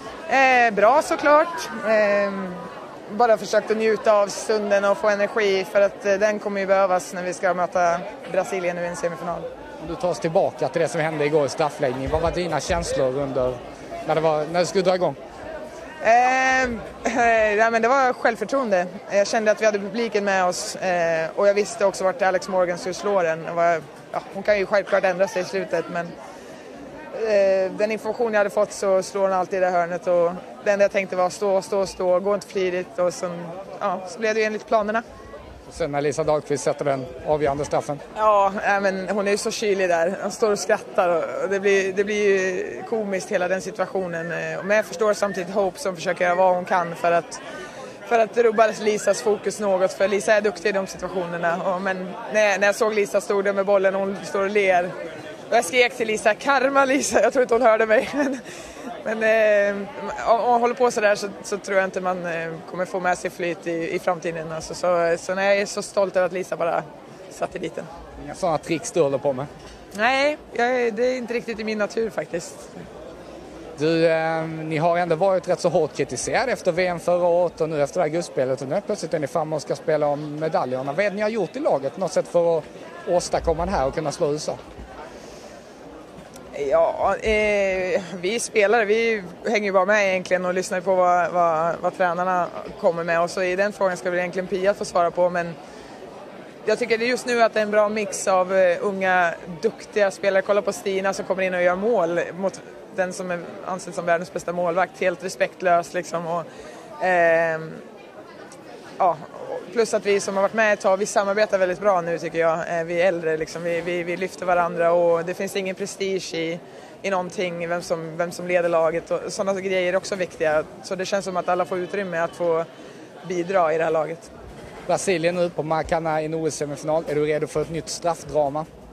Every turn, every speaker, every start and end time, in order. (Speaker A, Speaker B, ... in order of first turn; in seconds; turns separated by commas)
Speaker A: 0.3-9.5, Speaker B: 9.8-15.2, Speaker A: 16.0-26.1, Speaker A: 27.1-35.0, Speaker B: 35.7-38.0, Speaker A: 38.1-47.4, Speaker A: 48.1-54.9, Speaker A: 55.5-58.4, Speaker A: 59.0-67.9, Speaker B: 68.2-69.5, Speaker A: 69.9-72.8, Speaker B: 73.8-84.6, Speaker A: 86.5-95.6, Speaker A: 96.7-106.5, Speaker A: 107.0-107.8, Speaker A: 109.0-122.7, Speaker A: 123.2-124.3, Speaker B: 124.9-128.7